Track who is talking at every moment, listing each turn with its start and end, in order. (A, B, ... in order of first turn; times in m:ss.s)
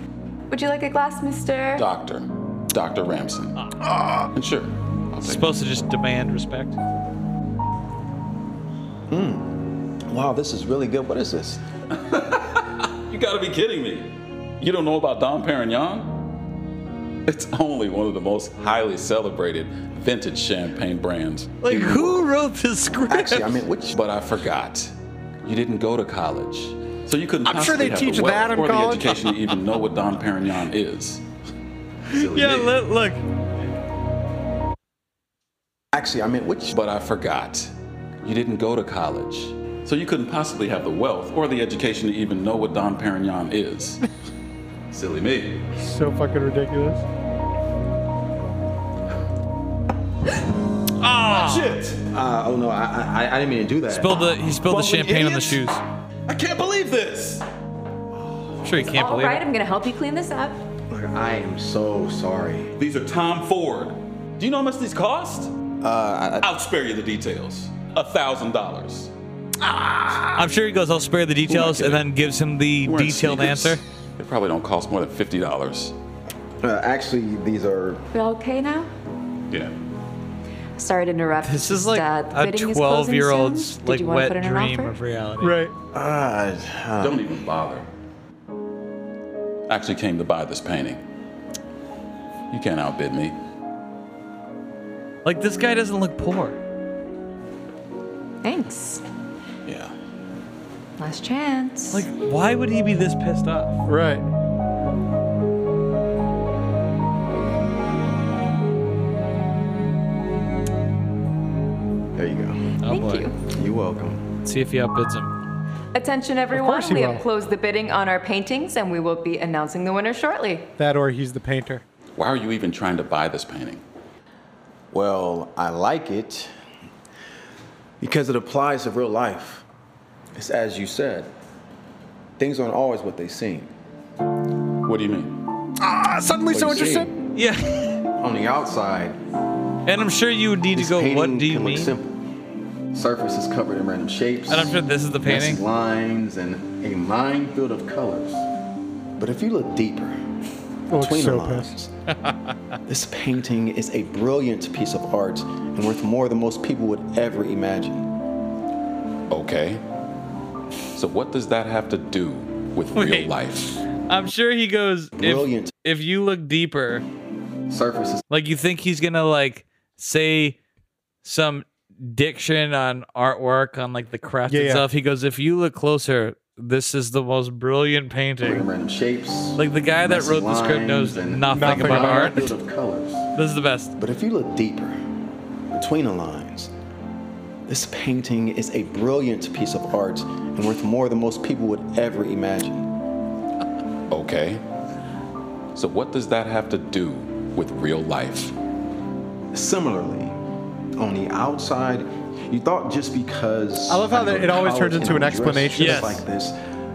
0:00.5-0:01.8 A
0:01.8-0:03.5 B
0:04.3-0:05.4 B
0:05.2-0:06.8 C
0:09.1-0:11.6 D
0:12.0-0:12.6 B
0:13.1-0:16.1 B
0:17.3-0:22.3 B
0:21.6-0:23.6 C
0:23.1-0:24.0 D
0:23.9-0:31.2 B
0:27.5-0:29.2 E
0:32.1-0:32.7 D
0:32.1-0:33.2 C
0:35.9-0:36.7 D
0:36.7-0:44.0 B
0:44.9-0:45.6 B
0:45.8-0:47.0 E
0:51.0-0:51.8 C
0:51.3-0:52.0 B
0:52.0-0:55.1 D
0:53.9-0:55.8 C
0:54.9-0:55.6 B
0:56.3-0:57.4 B
0:58.6-0:59.4 C
0:58.8-1:00.6 A
1:00.9-1:02.7 D
1:02.8-1:05.5 B
1:05.8-1:06.5 D
1:06.4-1:09.1 B
1:10.3-1:13.8 C
1:11.6-1:12.0 B
1:12.8-1:15.9 B
1:16.6-1:18.0 D
1:18.1-1:18.9 A
1:20.8-1:25.0 A
1:21.4-1:25.6 C
1:25.4-1:25.7 E
1:25.9-1:27.4 D
1:27.0-1:27.9 B
1:29.7-1:31.0 B
1:32.5-1:33.4 B
1:35.2-1:36.6 C
1:38.4-1:39.0 A
1:39.7-1:39.9 B
1:41.0-1:42.0 A
1:41.9-1:43.8 C
1:43.9-1:44.2 E
1:52.2-1:52.6 D
1:52.8-1:53.3 C
1:52.9-1:53.4 A
1:53.4-1:54.2 D
1:54.4-1:55.3 C
1:55.9-2:00.7 A
1:56.5-1:57.2 E
2:00.8-2:01.8 E
2:02.2-2:03.8 B
2:04.9-2:06.5 D
2:08.0-2:09.6 D
2:10.4-2:11.3 D
2:12.4-2:13.7 D
2:14.8-2:15.4 B
2:15.8-2:17.1 E
2:16.5-2:17.2 D
2:17.4-2:18.0 C
2:18.2-2:19.2 D
2:19.9-2:22.0 C
2:20.7-2:22.2 D
2:22.9-2:28.4 D
2:24.5-2:25.6 C
2:29.2-2:30.2 D
2:30.9-2:31.7 E
2:31.0-2:31.9 D
2:32.2-2:32.5 C
2:32.9-2:38.1 D
2:39.3-2:39.8 B
2:41.0-2:43.8 B
2:43.0-2:43.3 C
2:43.9-2:47.0 C
2:45.2-2:45.7 D
2:47.7-2:48.2 D
2:48.3-2:50.6 C
2:51.2-2:58.7 C
2:54.5-2:54.8 E
2:58.4-3:03.2 D
2:59.6-3:02.5 C
3:01.5-3:02.4 E
3:03.4-3:03.9 C
3:04.0-3:05.0 D
3:05.7-3:06.7 D
3:07.7-3:12.9 D
3:14.1-3:14.6 B
3:15.8-3:18.5 B
3:19.5-3:20.4 D
3:21.0-3:26.5 D
3:23.9-3:26.1 E
3:25.8-3:26.2 C